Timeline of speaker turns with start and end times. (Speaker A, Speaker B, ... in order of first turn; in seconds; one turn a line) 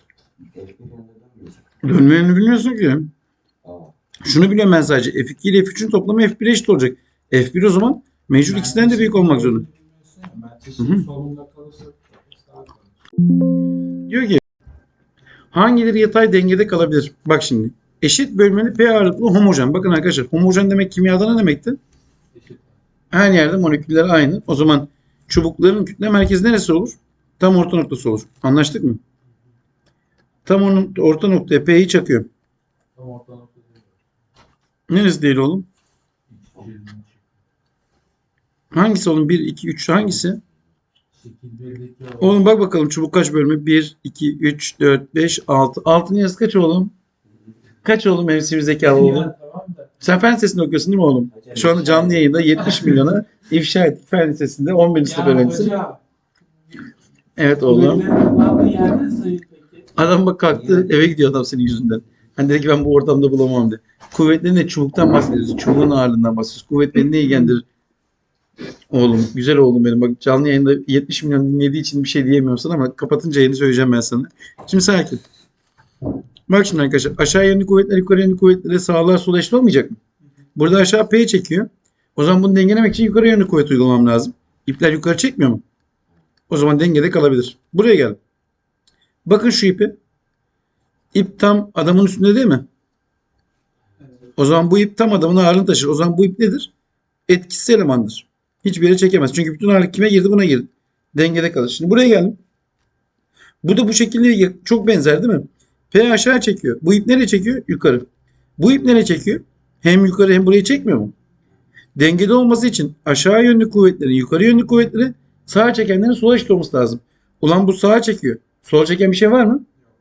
Speaker A: 0.4-1.7
Speaker B: 1.8-3.1
Speaker A: 3.6-3.9
Speaker B: 4.2-9.7
Speaker C: 8.4-12.8
Speaker B: 10.8-11.1
Speaker B: 14.1-14.4
Speaker B: 15.5-21.8
Speaker C: 22.3-22.7
Speaker B: 23.1-29.0
Speaker B: 30.5-32.3
Speaker C: 33.0-33.9
Speaker B: 34.9-35.7
Speaker C: 36.3-37.1
Speaker B: 38.7-40.4
Speaker C: 41.1-42.3
Speaker B: 42.2-46.9
Speaker B: 47.8-49.3
Speaker C: 48.9-50.0
Speaker B: 50.0-55.8
Speaker A: 51.3-52.8
Speaker C: 55.0-56.0
Speaker B: 57.4-58.1
Speaker C: 57.6-59.9
Speaker B: 60.0-67.6
Speaker B: 68.9-75.2
Speaker B: 76.5-80.0
Speaker B: 80.6-85.6
Speaker B: 86.5-88.2
Speaker B: 89.2-90.0
Speaker B: 91.1-92.7
Speaker B: 94.4-96.7
Speaker B: 97.3-102.4
Speaker B: 103.6-111.1
Speaker B: 112.0-119.7